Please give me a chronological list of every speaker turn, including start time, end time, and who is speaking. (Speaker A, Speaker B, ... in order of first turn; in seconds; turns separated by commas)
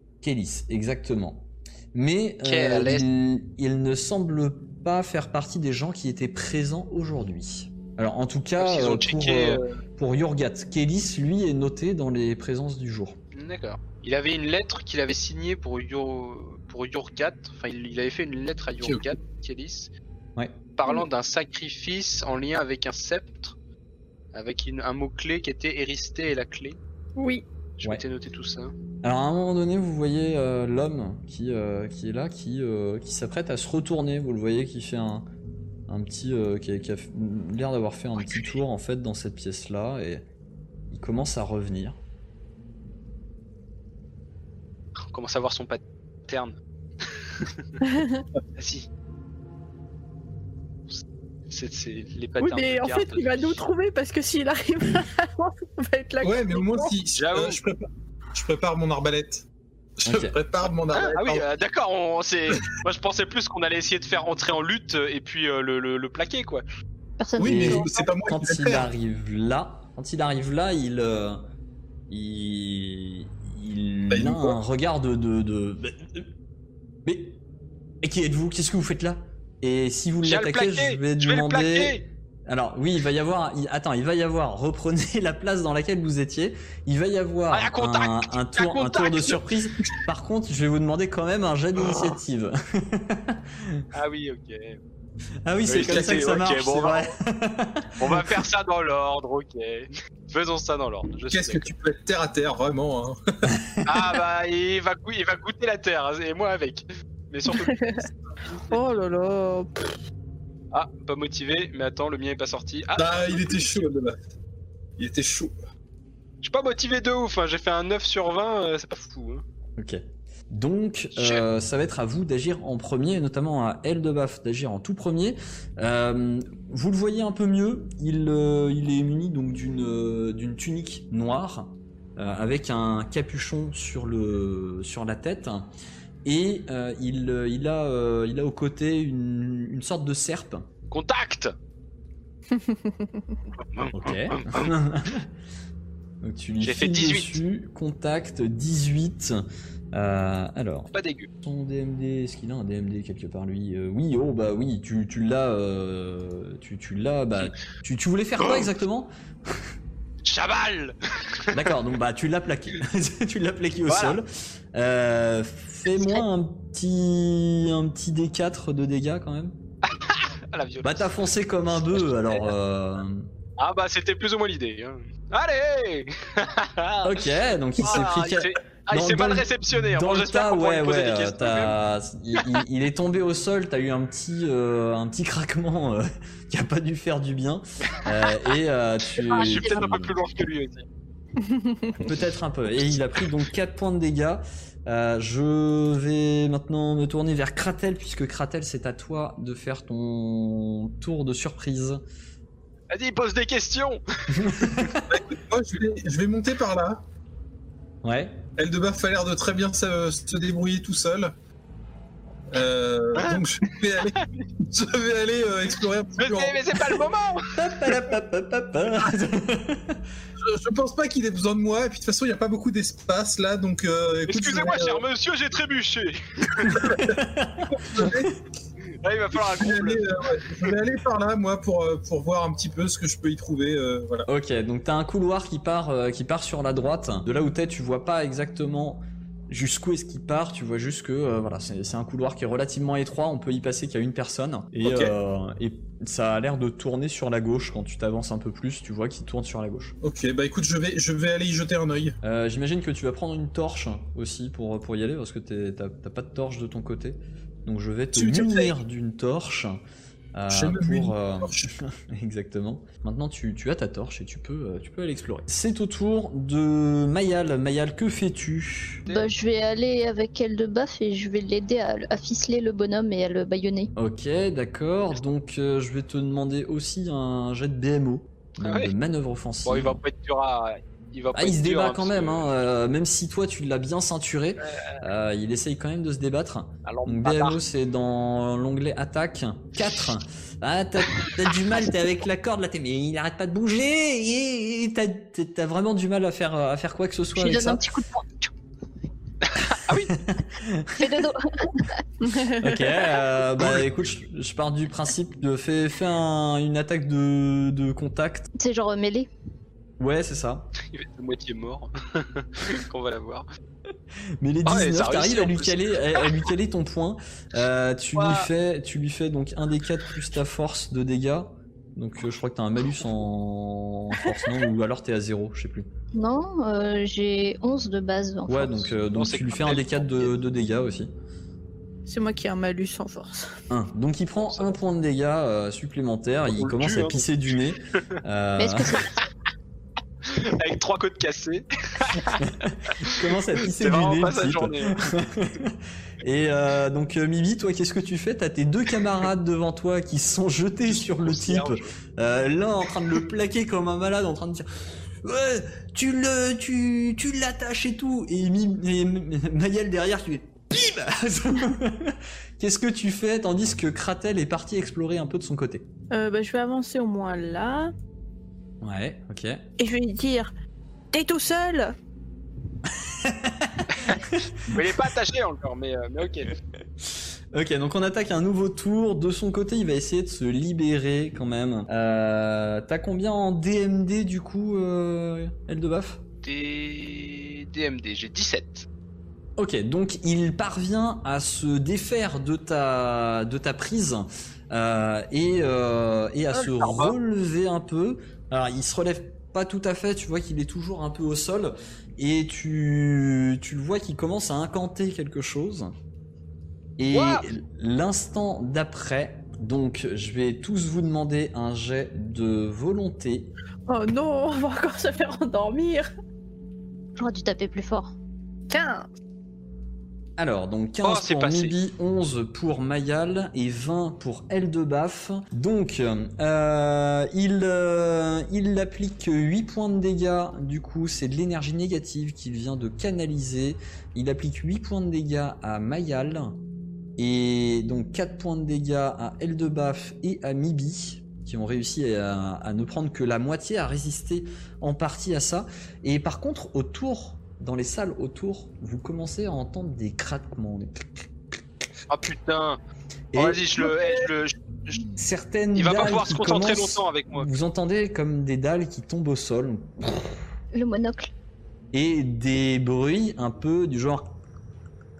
Speaker A: 0.2-13.2, Speaker B: 2.4-3.1, Speaker B: 8.6-9.8, Speaker B: 13.3-19.9, Speaker C: 18.8-19.1, Speaker B: 20.8-23.6, Speaker B: 24.3-26.8, Speaker D: 27.2-27.4, Speaker B: 27.8-28.7, Speaker A: 29.0-35.3, Speaker A: 35.9-40.2, Speaker B: 38.2-38.5, Speaker A: 40.9-42.0, Speaker B: 45.1-47.7, Speaker D: 47.8-48.2, Speaker B: 48.6-48.9, Speaker B: 50.9-53.6, Speaker D: 52.4-56.9, Speaker C: 56.2-59.5, Speaker B: 57.1-57.6, Speaker C: 60.0-61.5, Speaker A: 60.0-60.3, Speaker B: 60.9-66.6, Speaker E: 67.2-68.1, Speaker C: 67.4-68.9, Speaker A: 67.4-71.4, Speaker A: 72.1-76.3, Speaker C: 74.1-74.6, Speaker A: 77.0-77.4, Speaker A: 78.0-93.8, Speaker B: 80.2-82.0, Speaker B: 87.5-89.4, Speaker B: 93.9-94.8, Speaker A: 95.5-98.3, Speaker B: 95.7-97.1, Speaker C: 95.8-96.4, Speaker B: 98.0-101.7, Speaker C: 101.3-103.2, Speaker A: 103.5-103.8, Speaker B: 103.8-108.8, Speaker D: 107.5-108.0, Speaker D: 108.7-109.8, Speaker B: 110.7-113.6, Speaker C: 112.9-114.2, Speaker C: 115.0-115.5, Speaker B: 116.4-119.4, Speaker A: 119.8-135.7, Speaker B: 121.1-121.4, Speaker A: 136.2-140.7, Speaker B: 140.9-141.5, Speaker D: 142.5-143.3, Speaker B: 143.6-144.7, Speaker A: 143.9-145.3, Speaker A: 146.2-149.4, Speaker B: 146.6-147.4, Speaker A: 149.9-159.6, Speaker B: 150.9-151.3, Speaker B: 158.4-158.7, Speaker B: 160.2-161.7, Speaker A: 161.5-169.5, Speaker B: 163.9-164.2, Speaker B: 169.9-171.1, Speaker A: 170.8-173.3, Speaker B: 171.7-172.5, Speaker B: 173.6-177.2, Speaker A: 177.0-190.1, Speaker B: 177.8-181.8, Speaker B: 182.3-182.6, Speaker B: 189.2-190.8, Speaker E: 189.3-189.8, Speaker D: 191.4-192.0, Speaker A: 192.0-202.0, Speaker B: 202.9-204.0, Speaker A: 204.3-205.2, Speaker C: 205.1-207.0, Speaker A: 208.0-208.4, Speaker C: 208.6-211.3, Speaker C: 212.5-217.0, Speaker B: 213.2-213.4, Speaker B: 213.9-214.4, Speaker B: 216.2-217.9, Speaker A: 217.5-220.0, Speaker C: 220.4-225.0, Speaker B: 224.3-226.8, Speaker C: 226.6-227.2, Speaker A: 226.7-228.3, Speaker C: 227.7-228.3, Speaker B: 229.0-230.7, Speaker C: 229.3-234.3, Speaker A: 234.2-249.9, Speaker C: 244.8-245.1, Speaker C: 250.0-252.2, Speaker A: 252.2-259.8, Speaker C: 258.1-258.7, Speaker A: 260.3-269.0, Speaker C: 260.5-261.7, Speaker B: 269.1-269.3, Speaker E: 269.1-273.9, Speaker A: 273.9-280.0, Speaker B: 278.6-278.9, Speaker B: 279.6-282.5, Speaker A: 281.3-297.8, Speaker B: 284.6-285.0, Speaker B: 286.8-287.6, Speaker E: 297.3-298.5, Speaker B: 299.5-300.1, Speaker A: 300.1-301.2, Speaker E: 301.0-302.0, Speaker D: 302.2-302.9, Speaker A: 302.5-308.5, Speaker E: 308.6-309.3, Speaker A: 310.0-310.7, Speaker B: 310.9-313.4, Speaker A: 314.4-325.9, Speaker B: 314.6-316.5, Speaker B: 318.1-318.5, Speaker E: 326.1-328.9, Speaker A: 328.5-331.1, Speaker B: 329.1-330.3, Speaker D: 332.1-333.6, Speaker A: 333.7-339.0, Speaker B: 334.4-334.8, Speaker B: 336.5-337.3, Speaker E: 338.6-339.2, Speaker B: 340.2-342.4, Speaker A: 342.3-354.6, Speaker B: 343.2-345.0, Speaker B: 350.9-351.9, Speaker A: 355.2-365.9, Speaker D: 366.1-367.9, Speaker A: 368.8-369.6, Speaker D: 369.8-370.5, Speaker D: 371.1-371.9, Speaker A: 372.9-374.9, Speaker B: 374.0-376.5, Speaker A: 377.0-386.2, Speaker B: 386.4-388.9, Speaker A: 389.6-405.9, Speaker B: 396.7-397.1, Speaker A: 407.0-413.5, Speaker B: 407.1-407.4, Speaker D: 413.9-416.1, Speaker E: 417.2-418.1, Speaker D: 418.7-419.1, Speaker A: 420.4-436.6, Speaker B: 421.0-421.7, Speaker A: 437.2-451.3, Speaker B: 452.1-452.8, Speaker A: 453.3-453.7, Speaker B: 453.3-455.1, Speaker A: 455.2-460.4, Speaker B: 455.7-457.5, Speaker E: 460.7-461.3, Speaker A: 461.9-464.3